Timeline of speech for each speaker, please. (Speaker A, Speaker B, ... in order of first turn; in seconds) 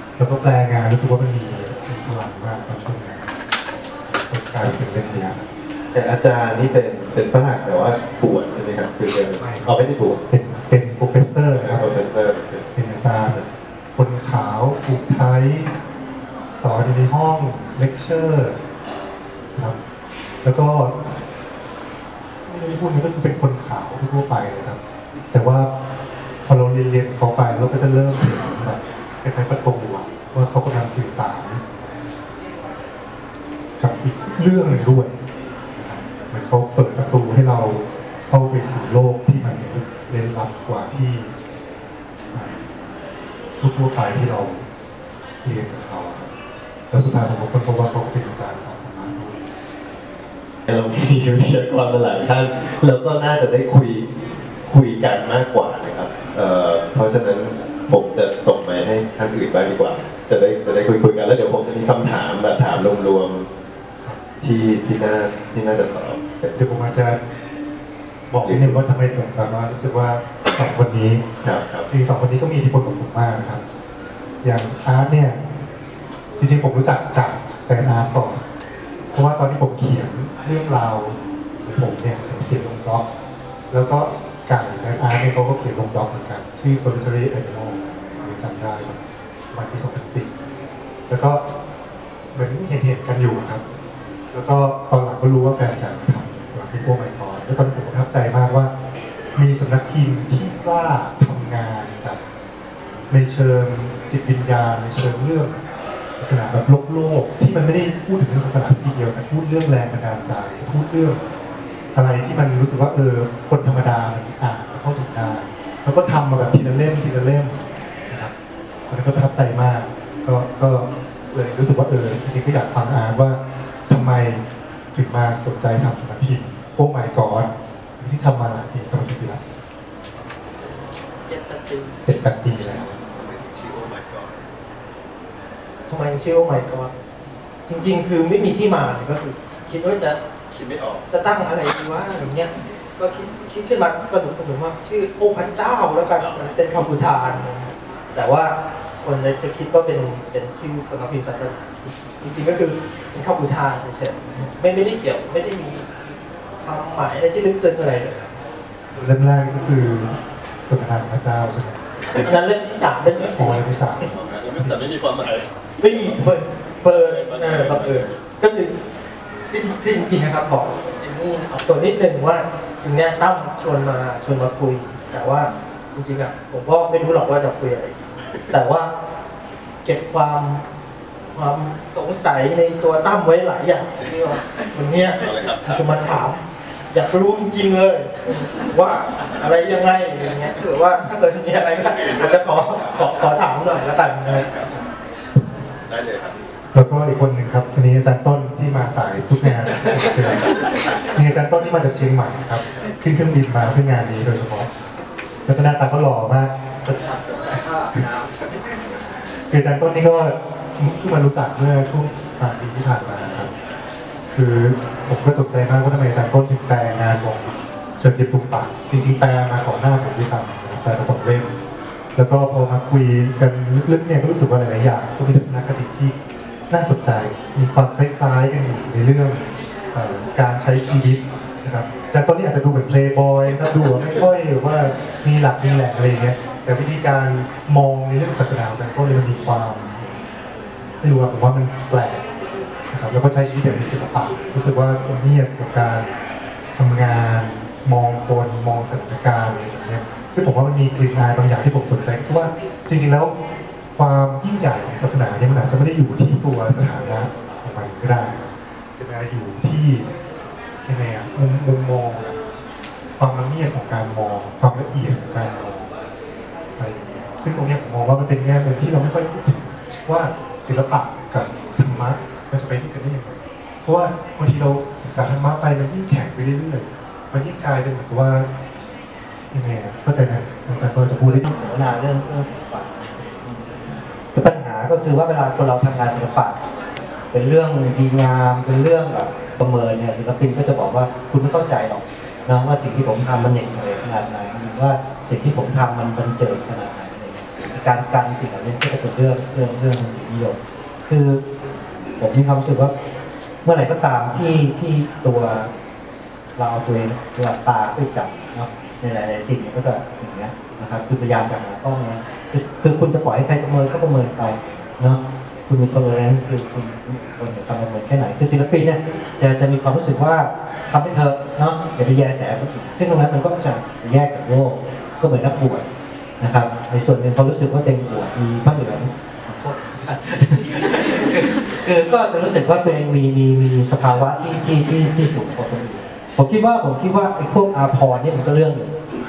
Speaker A: 0.2-3.3, 4.1-5.4, 9.4-11.9, 12.8-15.7, 16.5-18.6, 20.4-21.0, 22.4-24.8, 25.3-25.7, 26.4-31.6, 33.8-35.1, 35.8-41.3, 42.3-42.7, 43.6-44.6, 45.4-46.3, 46.9-49.4, 66.5-67.2, 68.3-71.2, 71.9-73.6, 74.4-75.4, 76.4-78.4, 79.1-83.0, 83.7-89.0, 89.5-90.3, 91.1-91.4, 92.3-93.6, 94.3-98.7, 99.3-102.2, 103.1-105.5, 106.2-111.2, 111.9-118.3, 118.9-124.4, 124.9-129.4, 132.0-132.9, 158.9-160.1, 160.7-161.8, 163.2-164.8, 196.7-200.4, 201.1-204.7, 205.5-208.2, 209.5-213.5, 214.3-221.5, 222.2-226.1, 226.7-229.4, 229.9-240.2, 241.0-242.2, 242.9-246.1, 246.8-253.3, 253.9-260.1, 260.9-262.4, 263.2-265.9, 266.8-278.5, 279.5-281.4
Speaker B: 5.9-10.2, 11.5-12.7, 50.7-54.0, 54.7-63.5, 64.4-66.6, 68.4-68.8, 71.4-71.9, 130.6-132.0, 132.6-134.4, 140.5-141.1, 164.0-166.1, 166.9-168.1, 185.2-186.2, 192.0-194.8, 195.9-196.4
Speaker C: 135.9-136.9, 137.7-140.2, 141.1-148.5, 149.0-155.9, 156.6-158.3, 162.1-163.6, 165.8-168.7, 169.5-178.9, 179.8-180.6, 181.3-186.4, 186.9-194.5
Speaker D: 281.2-286.6, 287.3-301.4, 302.2-302.9, 303.6-305.7, 306.6-325.8, 326.4-338.9